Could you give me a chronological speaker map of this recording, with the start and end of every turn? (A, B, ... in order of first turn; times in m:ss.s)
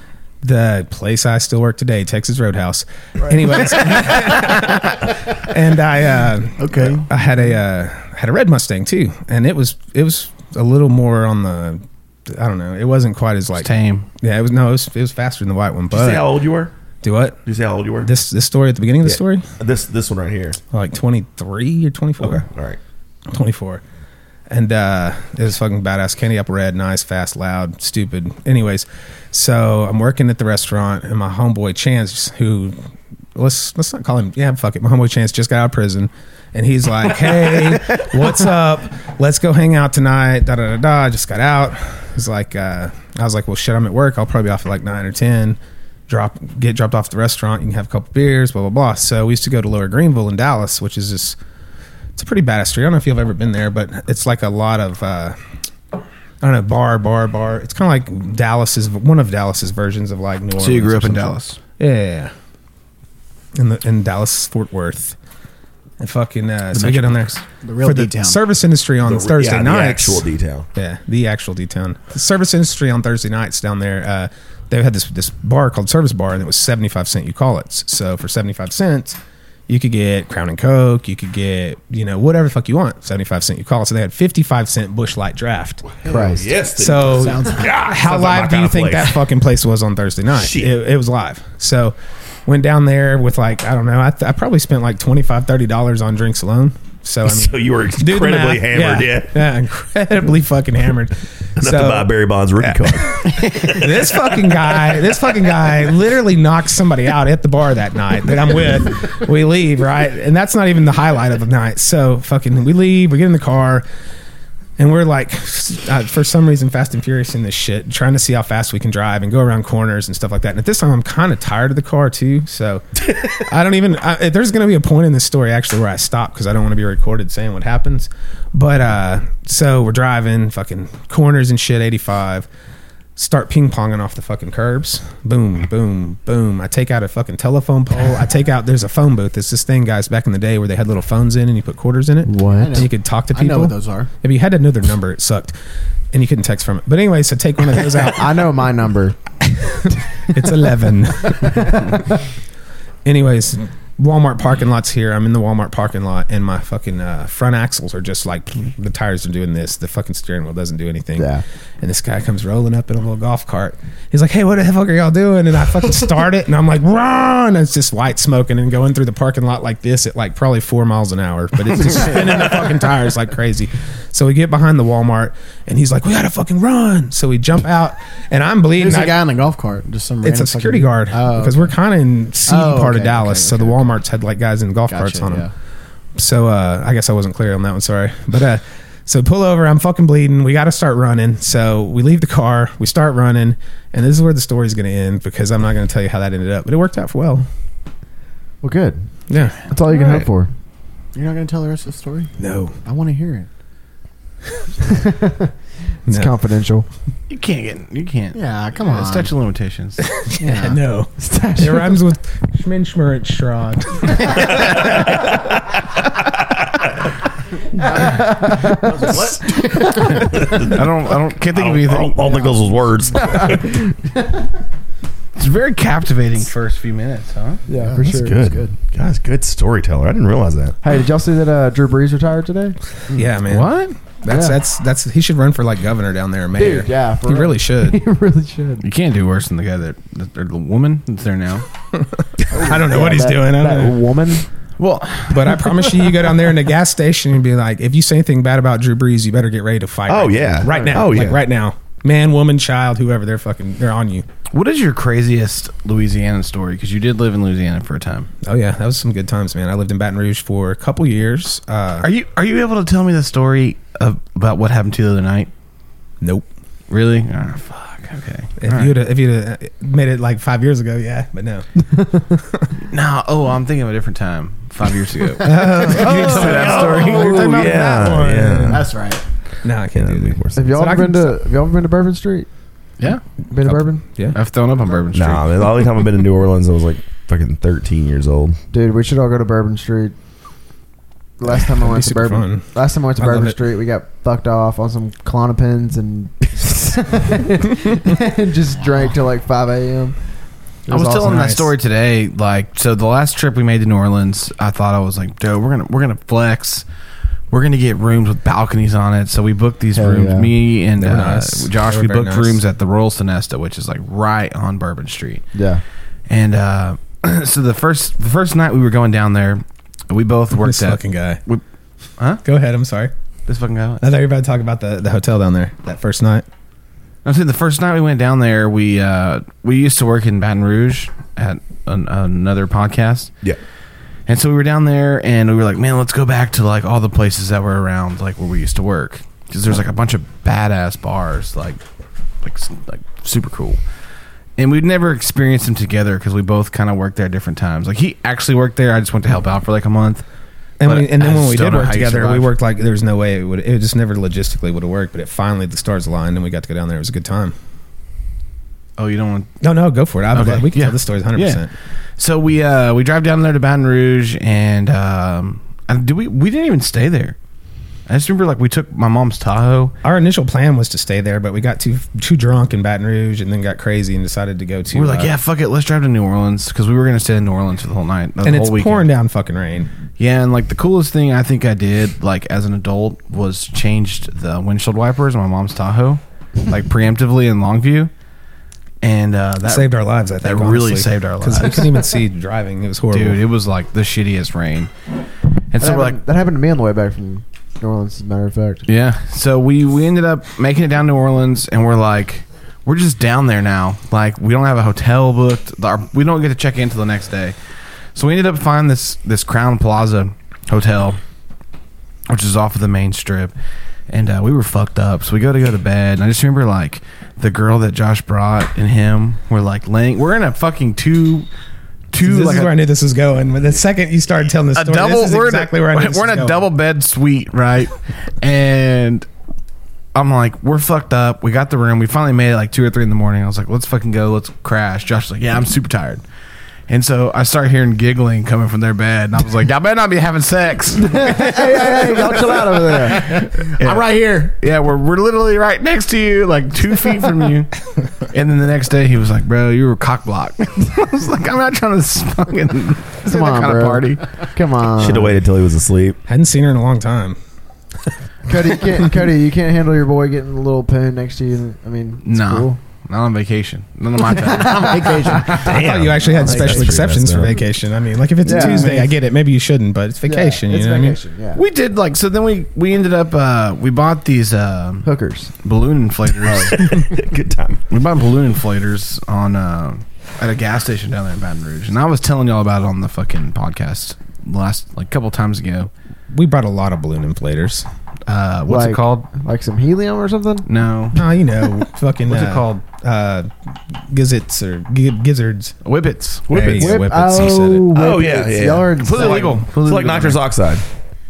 0:00.4-0:16.3 A
0:03.3-0:04.5 B
0:06.6-0:07.1 B
0:13.6-0:14.0 C
0:15.9-0:16.7 D
0:17.0-0:17.4 A
0:17.4-0:18.1 D
0:18.0-0:19.5 A
0:19.0-0:20.6 D
0:20.7-0:22.4 A
0:22.2-0:22.8 D
0:23.3-0:23.8 A
0:24.5-0:32.8 A
0:33.4-0:51.4 A
0:52.2-0:55.4 A
0:56.4-1:02.3 A
1:00.6-1:01.6 C
1:03.5-1:05.2 A
1:06.0-1:25.8 A
1:06.8-1:08.4 B
1:09.0-1:10.7 D
1:26.0-1:29.2 D
1:26.0-1:26.5 E
1:26.7-1:53.9 A
1:27.0-1:27.8 B
1:30.4-1:30.7 D
1:37.2-1:39.3 D
1:41.6-1:43.2 D
1:43.4-1:43.8 C
1:54.8-2:02.8 A
2:03.4-2:12.5 A
2:13.2-2:25.6 A
2:22.2-2:22.8 E
2:22.6-2:24.1 B
2:26.1-2:28.3 A
2:28.1-2:30.0 E
2:30.3-2:32.0 A
2:31.4-2:31.9 E
2:33.0-2:59.2 A
2:41.2-2:41.4 E
2:58.8-3:01.7 B
3:00.2-3:05.5 A
3:02.5-3:03.9 B
3:04.9-3:05.5 B
3:06.2-3:17.4 A
3:18.6-3:19.1 E
3:19.3-3:19.6 A
3:19.7-3:20.5 E
3:21.1-3:22.3 B
3:22.4-3:22.8 A
3:22.8-3:23.5 B
3:24.8-3:25.5 E
3:26.1-3:26.3 A
3:26.1-3:26.9 E
3:27.3-3:30.0 C
3:28.4-3:29.3 B
3:30.2-3:35.2 A
3:30.4-3:30.8 B
3:31.2-3:32.0 E
3:34.6-3:35.4 D
3:38.0-3:40.1 E
3:38.8-3:40.9 D
3:40.5-3:42.3 C
3:41.5-3:43.7 D
3:43.2-3:43.8 E
3:45.4-3:47.6 C
3:47.7-3:48.7 B
3:47.7-3:48.4 E
3:48.0-3:50.8 D
3:50.8-3:52.8 E
3:53.1-3:58.0 A
3:53.5-3:53.9 C
3:54.3-3:54.5 E
3:56.6-3:58.8 E
3:58.8-4:01.6 C
4:01.9-4:04.0 A
4:02.5-4:04.4 E
4:04.8-4:05.6 C
4:05.3-4:14.2 A
4:10.1-4:11.4 D
4:10.6-4:11.0 E
4:14.5-4:18.3 C
4:18.4-4:22.1 A
4:22.0-4:25.5 C
4:26.2-4:26.5 A
4:26.9-4:28.9 C
4:28.6-4:31.6 A
4:32.9-4:37.7 C
4:35.4-4:38.9 A
4:35.8-4:36.2 B
4:36.0-4:38.9 D
4:38.7-4:39.2 B
4:39.6-4:41.4 A
4:39.9-4:40.6 D
4:40.6-4:42.5 E
4:43.5-4:44.0 E
4:43.6-4:44.4 A
4:44.3-4:45.6 C
4:45.1-4:48.6 D
4:48.7-4:50.1 E
4:51.4-5:00.2 E
4:51.5-4:53.6 A
5:00.9-5:01.4 E
5:00.9-5:06.8 C
5:01.1-5:01.7 A
5:07.5-5:15.4 C
5:09.9-5:10.5 E
5:11.0-5:12.6 A
5:15.5-5:15.8 E
5:16.3-5:21.6 C
5:20.6-5:21.4 A
5:22.4-5:23.1 A
5:23.5-5:24.0 C
5:24.0-5:26.4 A
5:27.2-5:33.4 C
5:34.3-5:41.8 C
5:42.4-5:43.8 C
5:44.6-5:50.2 C
5:50.8-5:57.6 A
5:50.8-5:52.5 C
5:59.0-5:59.5 C
5:59.6-6:01.7 A
6:00.3-6:01.6 C
6:02.2-6:07.4 C
6:08.1-6:09.9 C
6:10.0-6:15.3 A
6:14.9-6:19.1 C
6:18.4-6:19.9 A
6:20.2-6:28.1 C
6:29.0-6:31.9 C
6:29.6-6:33.4 A
6:33.1-6:34.9 C
6:35.7-6:36.2 C
6:35.8-6:38.8 E
6:38.9-6:47.6 C
6:48.1-6:51.2 C
6:52.3-6:53.5 C
6:54.1-7:01.5 C
7:02.1-7:02.7 C
7:02.2-7:06.7 A
7:04.7-7:09.2 C
7:10.1-7:16.2 C
7:16.9-7:21.5 C
7:21.0-7:23.4 E
7:21.3-7:24.5 B
7:23.2-7:27.7 C
7:28.3-7:34.2 C
7:33.2-7:35.4 E
7:35.0-7:36.2 D
7:36.2-7:37.4 A
7:38.5-7:42.8 E
7:42.2-7:45.0 C
7:44.4-7:45.6 E
7:44.5-7:45.7 B
7:45.6-7:47.5 D
7:45.6-7:51.2 A
7:46.4-7:46.9 E
7:48.4-7:49.1 E
7:48.4-7:49.0 B
7:50.2-7:51.6 E
7:51.6-7:55.1 C
7:55.0-7:55.5 E
7:55.6-7:56.9 C
7:56.5-7:57.8 D
7:57.9-8:05.9 C
8:06.3-8:07.9 A
8:08.3-8:09.3 C
8:08.7-8:10.6 E
8:10.6-8:11.2 C
8:11.1-8:15.7 A
8:12.3-8:12.8 C
8:15.8-8:16.6 C
8:16.5-8:16.9 D
8:16.5-8:17.9 A
8:16.8-8:19.6 E
8:17.9-8:20.8 D
8:19.0-8:20.4 C